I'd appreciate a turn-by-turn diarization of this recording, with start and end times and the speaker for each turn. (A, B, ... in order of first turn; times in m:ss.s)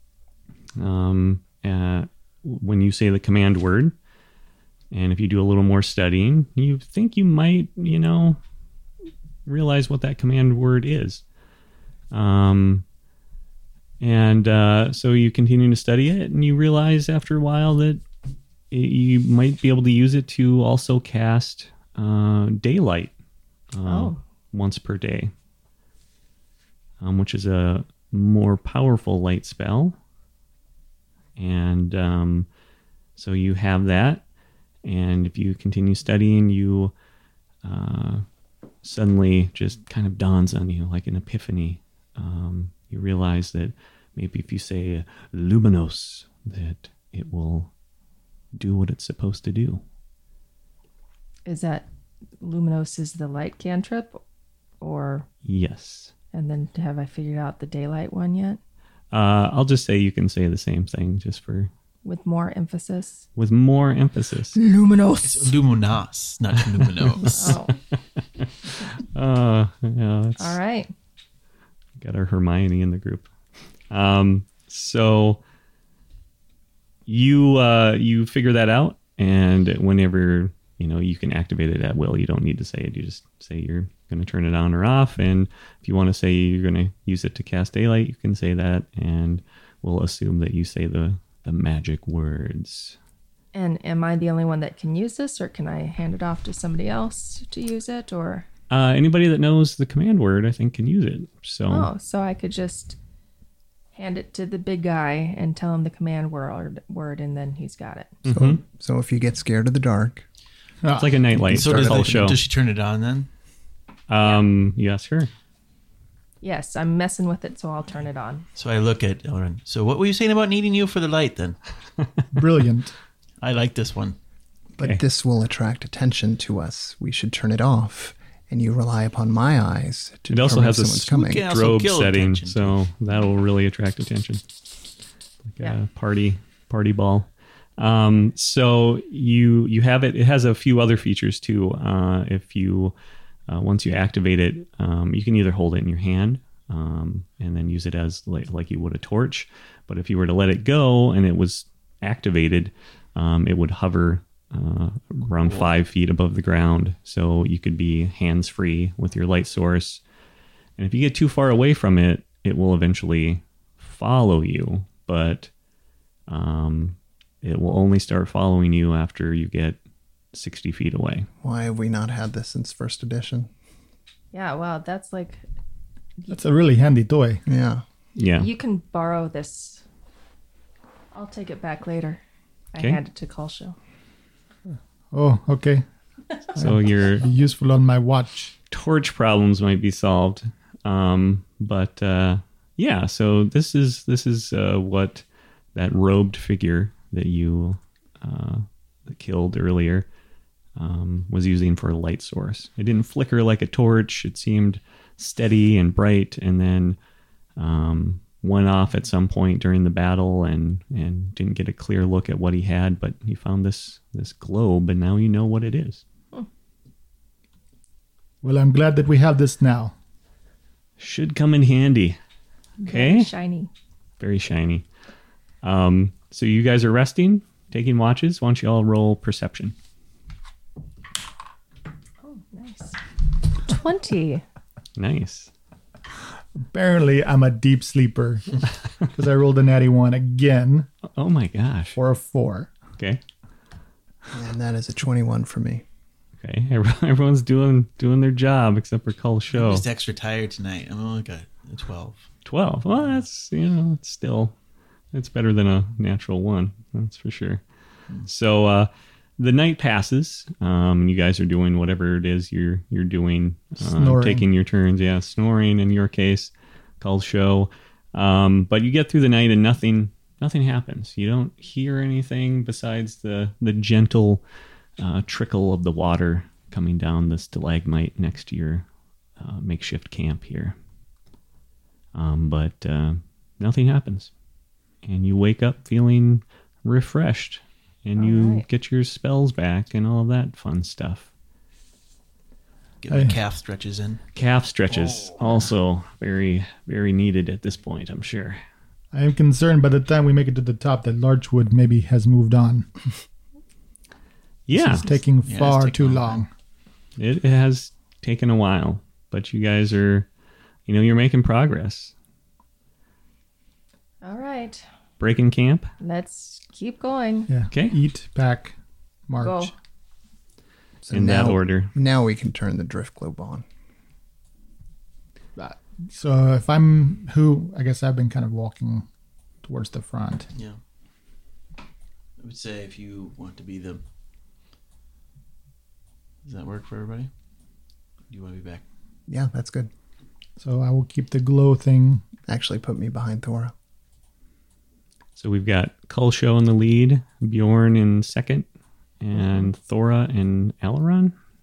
0:00.8-0:04.0 A
0:04.9-0:08.4 A
0:09.5-0:11.2 A
0:12.1-0:12.8 A
0:14.0-0:18.0 A
0:18.7-0:23.1 A
0:23.7-0:25.3 A
0:23.9-0:24.2 B
0:27.0-0:30.0 A
0:31.4-0:32.5 A
0:33.2-0:34.2 A
0:34.8-0:36.9 A
0:37.6-0:38.2 A
0:38.8-0:47.7 A
0:48.6-0:49.8 A
0:51.5-0:51.9 B
0:52.4-0:54.2 B
0:54.8-0:55.3 B
0:55.4-0:56.1 A
0:56.3-0:58.6 B
0:59.1-1:01.7 A
1:02.0-1:03.2 B
1:03.4-1:04.6 A
1:04.6-1:05.5 B
1:05.2-1:07.6 C
1:07.0-1:10.6 A
1:07.2-1:07.8 B
1:10.4-1:10.9 B
1:12.0-1:13.3 A
1:13.9-1:15.4 A
1:17.1-1:33.0 A
1:33.5-1:38.5 B
1:38.7-1:41.9 A
1:41.7-1:43.0 B
1:44.0-1:48.2 B
1:48.2-1:48.6 A
1:48.3-1:50.2 D
1:50.8-1:51.2 E
1:50.9-1:52.4 A
1:51.4-1:52.3 D
1:51.5-1:53.3 C
1:54.1-1:55.3 A
1:56.4-1:58.5 B
1:58.6-2:01.6 C
2:02.3-2:02.9 E
2:03.4-2:04.2 C
2:04.8-2:11.4 D
2:10.3-2:14.4 A
2:11.1-2:12.8 C
2:15.6-2:22.9 A
2:23.5-2:40.0 A
2:35.4-2:35.7 C
2:40.8-2:45.5 A
2:46.3-2:49.8 A
2:50.3-2:51.3 A
2:51.4-2:53.5 D
2:54.3-2:55.4 B
2:56.3-2:57.4 E
2:57.5-2:57.8 D
2:58.2-2:58.5 A
2:58.4-2:59.8 B
3:01.1-3:02.2 B
3:02.7-3:03.8 B
3:05.1-3:05.8 E
3:06.6-3:08.6 E
3:06.6-3:07.2 A
3:08.7-3:15.2 A
3:15.8-3:20.1 A
3:20.8-3:27.0 A
3:27.6-3:36.0 A
3:38.4-3:39.9 E
3:41.0-3:42.2 A
3:42.8-3:43.7 B
3:42.9-3:43.3 A
3:44.2-3:44.8 A
3:45.6-3:49.8 A
3:52.2-3:53.0 B
3:53.6-3:54.4 B
3:55.0-3:55.5 A
3:56.6-4:00.9 E
4:01.2-4:02.0 A
4:02.0-4:02.7 E
4:04.3-4:05.8 D
4:06.4-4:09.9 A
4:09.5-4:12.3 C
4:12.4-4:14.5 A
4:15.1-4:17.6 A
4:18.2-4:34.4 A
4:23.8-4:24.4 E
4:35.0-4:38.9 A
4:39.4-4:40.8 A
4:42.1-4:44.3 A
4:45.0-4:51.3 A
4:48.2-4:48.7 B
4:53.0-4:54.2 C
4:53.1-4:53.4 E
4:54.3-4:58.6 A
4:55.1-4:55.6 C
4:59.1-5:02.9 E
5:04.7-5:05.1 A
5:04.7-5:06.5 E
5:05.1-5:06.4 C
5:07.2-5:10.3 A
5:10.9-5:12.1 A
5:14.2-5:14.8 B
5:15.2-5:15.9 A
5:16.0-5:17.5 B
5:17.5-5:18.8 E
5:19.3-5:19.7 E
5:19.4-5:19.7 B
5:21.0-5:23.6 D
5:21.1-5:21.9 A
5:25.6-5:29.1 E
5:29.6-5:30.5 E
5:30.5-5:30.8 C
5:32.4-5:34.0 C
5:36.4-5:37.3 C
5:38.3-5:38.8 C
5:39.3-5:39.9 D
5:40.6-5:42.2 E
5:42.5-5:43.7 D
5:45.4-5:48.7 A
5:49.2-5:51.3 A